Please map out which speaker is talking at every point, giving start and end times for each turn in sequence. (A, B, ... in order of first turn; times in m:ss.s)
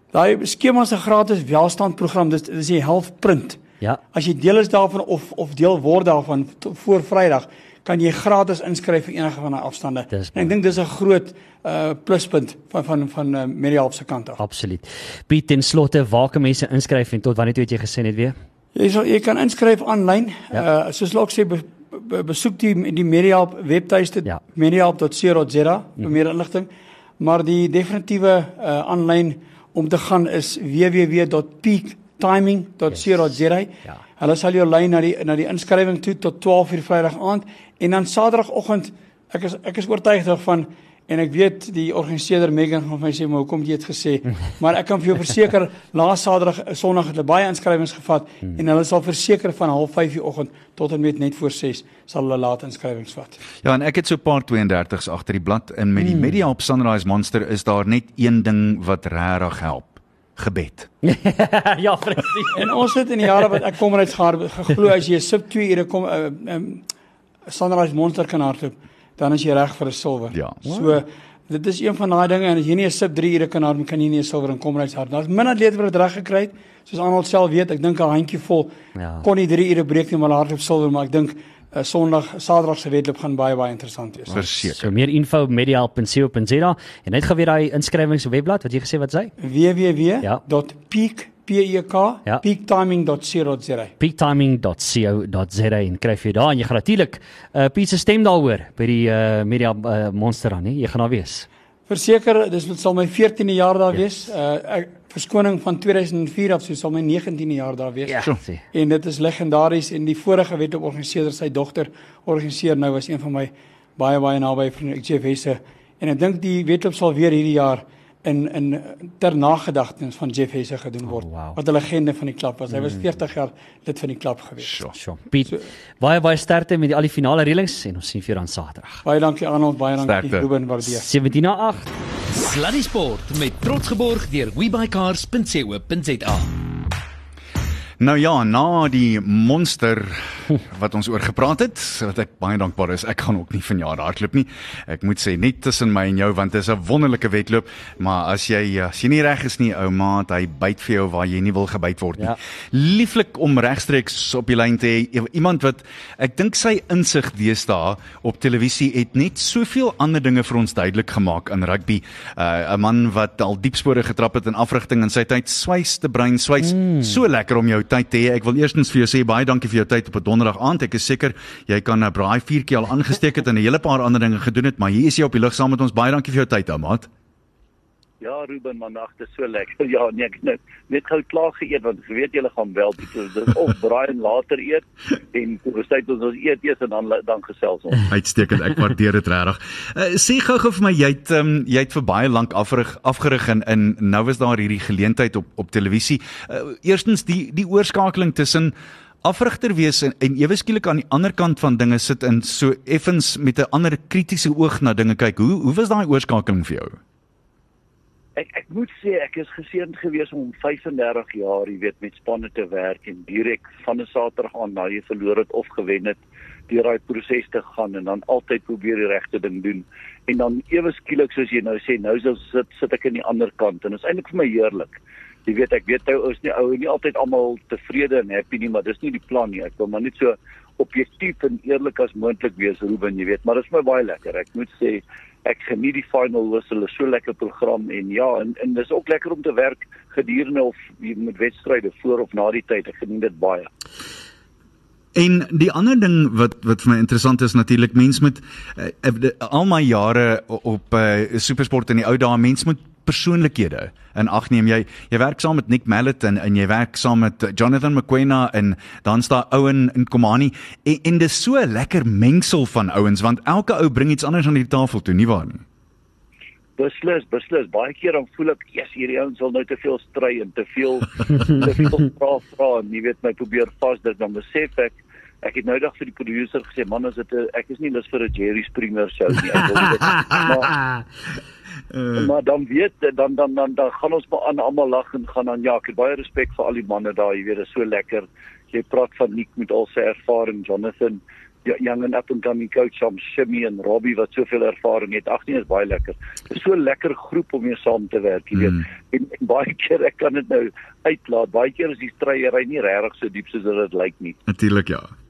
0:00.1-0:03.6 A
0:04.1-0:14.4 A
0:10.1-0:10.5 B
0:14.4-0:18.4 B
0:18.7-0:26.7 A
0:27.2-0:53.4 A
0:53.6-1:00.9 C
0:56.0-0:56.4 B
1:01.0-1:02.7 B
1:02.5-1:06.8 A
1:07.5-1:18.7 A
1:10.3-1:10.6 C
1:10.6-1:11.0 B
1:19.0-1:19.2 B
1:19.2-1:24.4 A
1:24.3-1:29.3 B
1:24.3-1:24.9 C
1:29.4-1:33.9 A
1:34.0-1:41.5 B
1:41.9-1:48.2 A
1:48.0-1:48.6 B
1:48.7-2:04.8 A
2:01.0-2:01.6 B
2:02.7-2:03.1 B
2:04.6-2:04.9 C
2:04.9-2:09.0 B
2:09.0-2:11.1 A
2:10.0-2:10.5 C
2:10.8-2:11.9 B
2:12.3-2:16.5 D
2:18.0-2:57.1 C
2:46.6-2:47.2 B
2:58.2-3:08.1 E
3:08.1-3:27.0 C
3:28.4-4:03.7 E
4:05.1-4:25.6 C
4:26.8-4:40.8 E
4:40.3-4:41.0 B
4:41.9-4:42.2 C
4:42.1-5:04.4 E
4:58.6-4:58.8 C
5:04.5-5:05.1 C